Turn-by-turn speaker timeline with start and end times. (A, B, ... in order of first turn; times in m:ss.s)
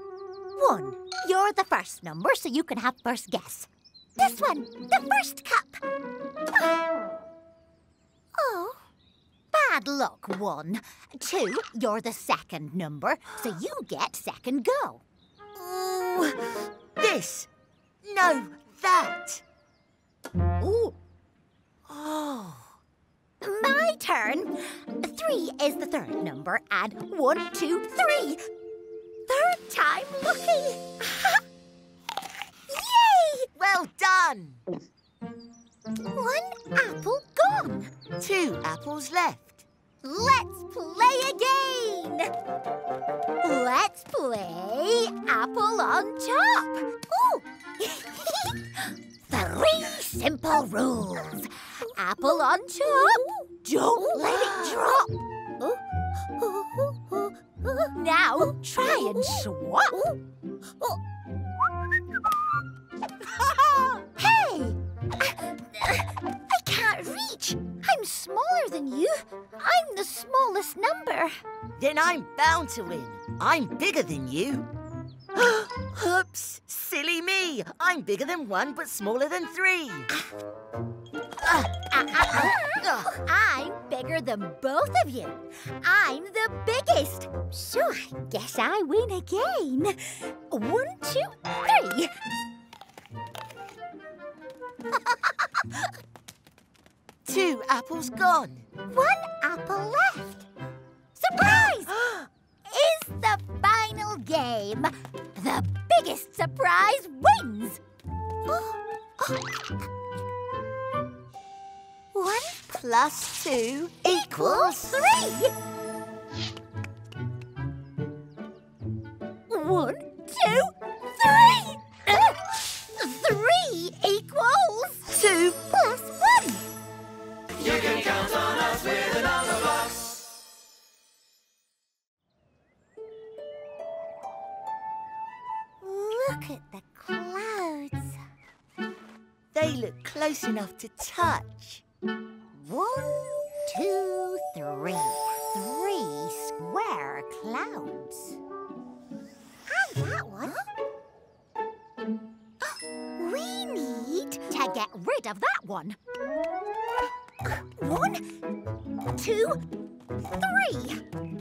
0:00.6-0:05.8 A
0:08.4-0:08.8 A
0:09.5-0:15.0 A
0:15.5-0:17.5 B
0:18.0-0:19.4 B
0:20.6-0:20.9 A
0:21.9-0:22.7 B
0:23.4-0:28.4 A
0:29.3-0:31.4 A
0:32.7-0:33.5 A
0:33.6-0:34.6 B
0:36.0-0:37.9 A
0:38.2-0:39.7 B
0:40.0-0:42.3 A
0:43.4-0:55.7 A
0:56.4-1:00.1 A
1:03.4-1:11.4 A
1:11.8-1:14.7 B
1:15.3-1:20.1 B
1:21.4-1:32.1 A
1:22.2-1:23.1 B
1:35.1-1:35.8 A
1:37.2-1:38.7 B
1:38.9-1:40.5 A
1:41.2-1:42.0 A
1:42.7-1:47.8 A
1:52.2-1:52.7 A
1:52.7-1:55.0 B
1:54.0-1:55.5 A
1:59.5-2:06.6 A
2:05.1-2:05.6 B
2:07.6-2:10.2 C
2:15.8-2:18.2 A
2:19.5-2:21.8 B
2:22.5-2:23.1 A
2:23.6-2:28.4 A
2:29.7-2:30.7 A
2:32.6-2:36.0 A
2:37.4-2:38.4 A
2:39.2-2:39.6 A
2:40.2-2:41.0 A